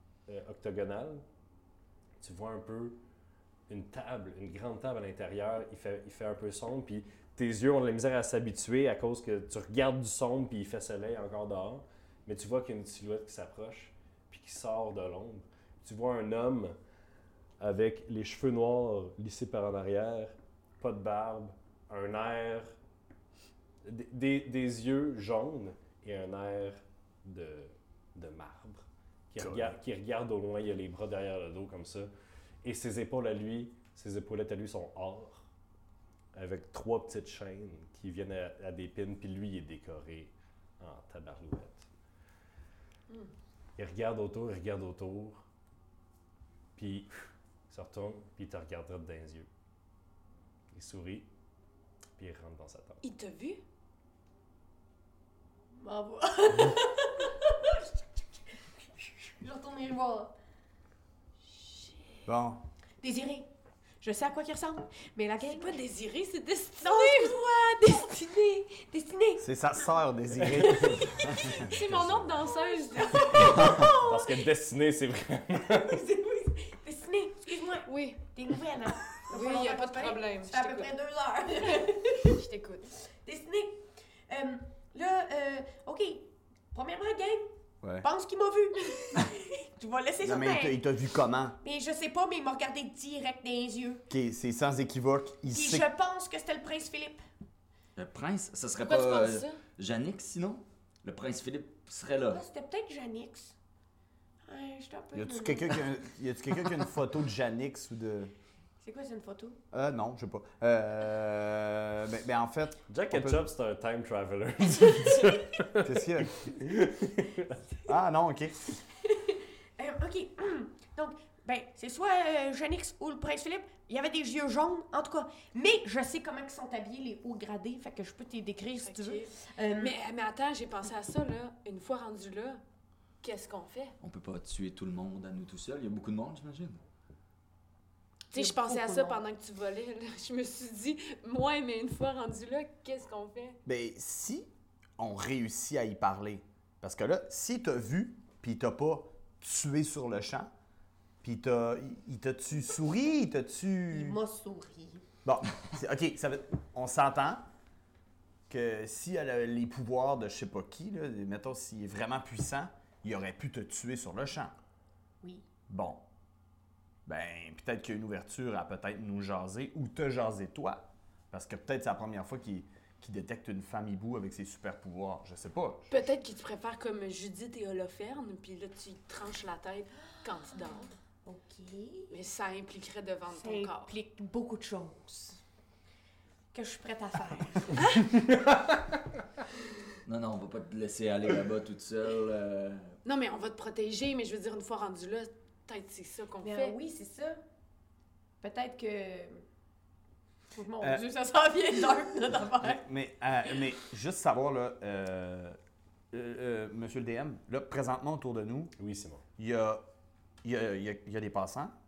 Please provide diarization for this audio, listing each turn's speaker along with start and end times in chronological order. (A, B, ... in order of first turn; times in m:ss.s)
0:00.3-0:01.2 A
0:02.2-0:03.0 A
0:03.7-0:16.8 A
0:17.6-0:22.7 A
0:23.8-0:32.1 A
0:29.4-0:29.7 B
0:32.6-0:35.4 A
0:36.3-0:41.9 A
0:43.8-0:45.4 A
0:46.8-0:49.5 A
0:50.7-0:51.3 A
0:52.2-0:53.0 A
0:53.0-0:53.6 C
0:55.8-0:57.9 D
0:59.4-1:00.3 D
1:02.2-1:02.6 B
1:03.0-1:03.5 D
1:04.0-1:05.8 D
1:05.4-1:07.4 C
1:06.8-1:09.5 D
1:09.4-1:11.6 B
1:10.5-1:11.6 D
1:11.2-1:13.9 C
1:12.4-1:14.4 D
1:13.6-1:16.0 A
1:15.7-1:22.4 D
1:17.8-1:18.2 C
1:19.3-1:20.9 C
1:21.6-1:22.9 C
1:23.2-1:30.8 D
1:27.8-1:28.1 B
1:30.2-1:31.6 B
1:31.6-1:34.0 D
1:34.1-1:35.9 B
1:35.5-1:37.2 D
1:38.0-1:42.4 E
1:38.8-1:39.6 C
1:42.3-1:43.5 D
1:44.4-1:45.8 D
1:45.1-1:48.3 B
1:48.8-1:49.6 D
1:49.7-1:53.4 B
1:52.9-1:57.6 A
1:55.8-1:56.7 B
1:57.8-1:58.7 B
1:59.1-2:10.0 D
2:08.8-2:12.6 C
2:13.2-2:14.0 C
2:14.0-2:16.8 E
2:18.3-2:23.6 C
2:18.3-2:19.2 D
2:23.6-2:30.5 B
2:31.2-2:34.2 B
2:33.9-2:35.0 D
2:35.2-2:37.5 B
2:38.5-2:44.5 B
2:45.7-2:46.0 B
2:47.0-2:55.9 B
2:55.9-3:00.9 C
3:01.2-3:02.1 D
3:02.1-3:03.9 C
3:03.3-3:05.4 D
3:06.5-3:08.0 D
3:07.8-3:08.1 C
3:08.1-3:09.0 A
3:10.0-3:13.0 E
3:13.0-3:16.7 C
3:16.4-3:17.4 D
3:18.4-3:19.4 D
3:20.5-3:22.8 D
3:22.6-3:25.6 B
3:26.1-3:28.7 B
3:28.8-3:29.2 A
3:29.4-3:29.8 B
3:30.4-3:31.7 B